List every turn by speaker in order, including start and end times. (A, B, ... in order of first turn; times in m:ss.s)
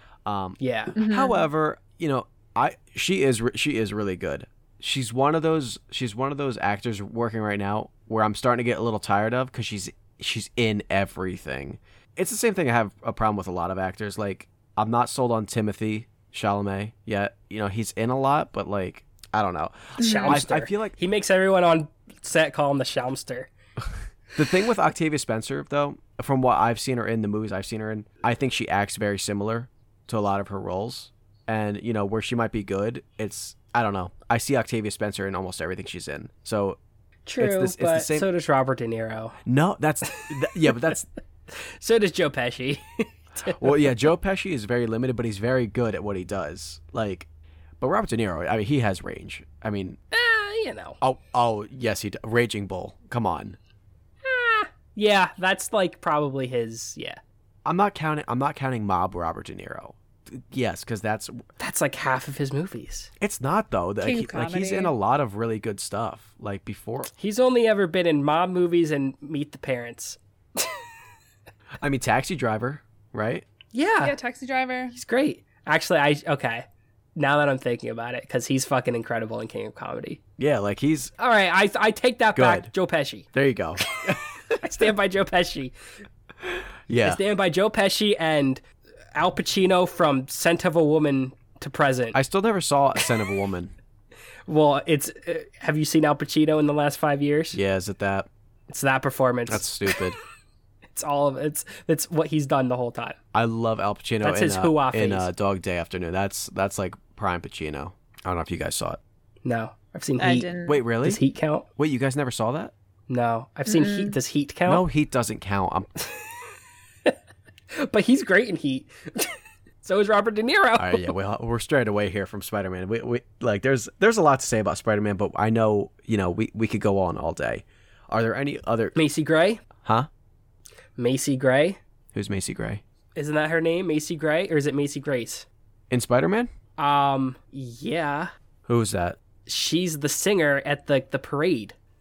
0:00.3-0:21.0 A
0:00.6-0:01.0 B
0:01.0-0:01.4 C
0:20.0-0:20.4 C
0:20.0-0:23.5 B
0:24.4-0:36.8 A
0:37.3-0:39.4 B
0:37.4-0:38.3 A
0:39.4-0:41.1 A
0:40.1-0:40.7 B
0:41.5-0:43.9 B
0:43.6-0:47.3 A
0:47.8-0:50.0 A
0:50.1-0:51.0 B
0:51.0-0:53.6 A
0:54.2-0:57.2 B
0:57.6-1:01.4 A
1:01.6-1:03.1 B
1:03.2-1:07.1 A
1:04.0-1:04.9 C
1:07.2-1:10.8 B
1:11.8-1:13.5 A
1:13.7-1:14.2 B
1:14.0-1:14.9 C
1:14.9-1:20.2 B
1:20.4-1:21.1 A
1:21.2-1:23.3 B
1:22.4-1:22.7 A
1:23.3-1:24.2 A
1:24.1-1:25.7 B
1:26.5-1:27.2 A
1:27.0-1:28.6 B
1:29.2-1:32.2 B
1:32.1-1:33.7 A
1:34.5-1:37.6 B
1:37.5-1:38.3 A
1:38.7-1:40.0 B
1:39.5-1:40.2 A
1:40.9-1:43.2 B
1:43.3-1:49.0 A
1:44.2-1:45.3 B
1:49.4-1:50.5 B
1:50.2-1:50.8 C
1:50.7-1:51.2 A
1:51.0-1:51.7 B
1:51.8-1:52.7 A
1:53.1-1:54.8 B
1:53.7-1:54.2 C
1:54.7-1:55.9 A
1:57.7-2:01.1 B
2:00.8-2:09.0 A
2:09.0-2:09.6 B
2:09.8-2:10.1 A
2:11.0-2:11.8 B
2:12.1-2:12.8 A
2:13.2-2:15.5 B
2:15.9-2:16.5 A
2:16.8-2:18.3 B
2:18.7-2:19.2 A
2:19.5-2:21.8 B